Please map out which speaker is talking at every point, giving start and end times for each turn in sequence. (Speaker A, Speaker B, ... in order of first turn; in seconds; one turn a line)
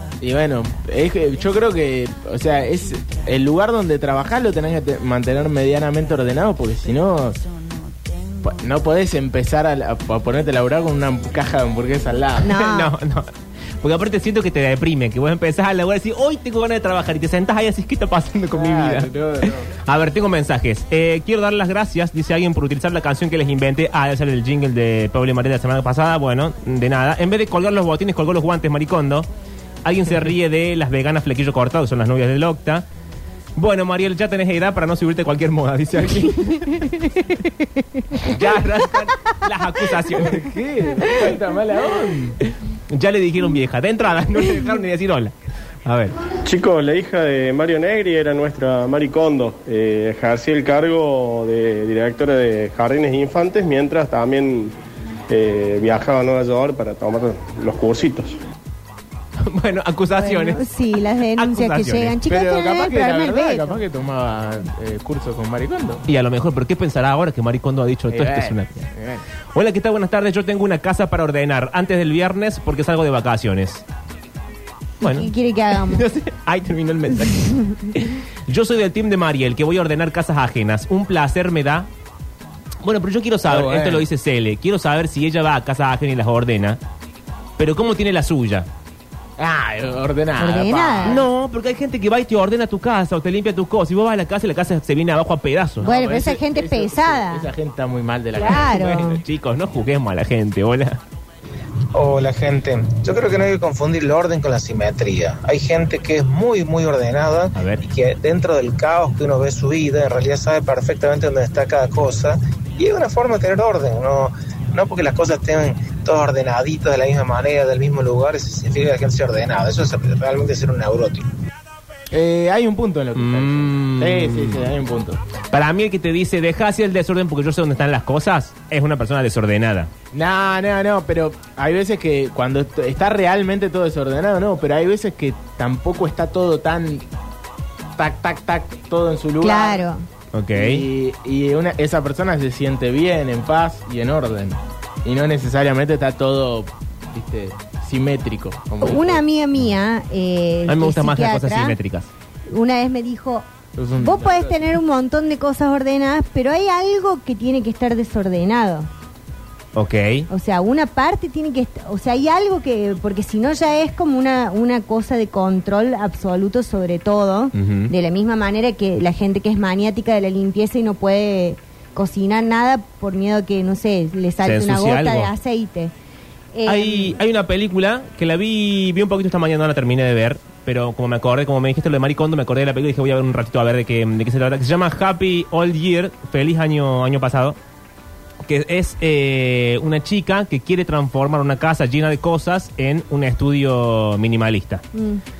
Speaker A: 0.2-7.4
Speaker A: 8.4-12.6
Speaker B: 12.4-12.9
Speaker C: 12.5-29.3
Speaker A: 18.5-19.7
Speaker C: 29.8-32.9
Speaker C: 33.6-36.8
Speaker C: 38.2-40.4
Speaker A: 40.2-42.4
Speaker C: 42.9-45.3
Speaker C: 45.9-46.1
Speaker D: 46.4-54.7
Speaker D: 55.3-58.4
Speaker C: 59.4-62.2
Speaker B: 60.2-63.8
Speaker A: 62.3-66.0
Speaker C: 66.1-68.9
Speaker A: 68.1-69.2
Speaker C: 69.5-73.8
Speaker B: 75.0-76.1
Speaker C: 75.0-81.9
Speaker B: 77.3-77.8
Speaker C: 82.8-86.8
Speaker A: 83.5-84.1
Speaker C: 87.6-88.7
Speaker A: 89.4-91.2
Speaker B: 90.4-91.2
Speaker C: 91.1-95.9
Speaker A: 95.8-99.0
Speaker B: 95.8-97.5
Speaker B: 98.4-99.2
Speaker C: 98.6-101.0
Speaker E: 101.9-121.3
Speaker C: 107.5-107.8
Speaker A: 122.1-125.2
Speaker C: 123.2-124.6
Speaker C: 125.5-129.9
Speaker A: 130.1-137.1
Speaker A: 138.0-139.9
Speaker B: 139.4-140.1
Speaker C: 140.3-140.8
Speaker A: 140.5-149.2
Speaker B: 148.8-151.8
Speaker C: 150.7-152.1
Speaker B: 152.5-153.5
Speaker A: 153.8-154.8
Speaker B: 154.0-158.9
Speaker C: 159.8-160.3
Speaker B: 160.3-175.9
Speaker C: 167.6-167.9
Speaker C: 174.4-175.3
Speaker B: 176.5-177.2
Speaker C: 176.7-187.6
Speaker C: 188.4-194.8
Speaker B: 194.9-195.2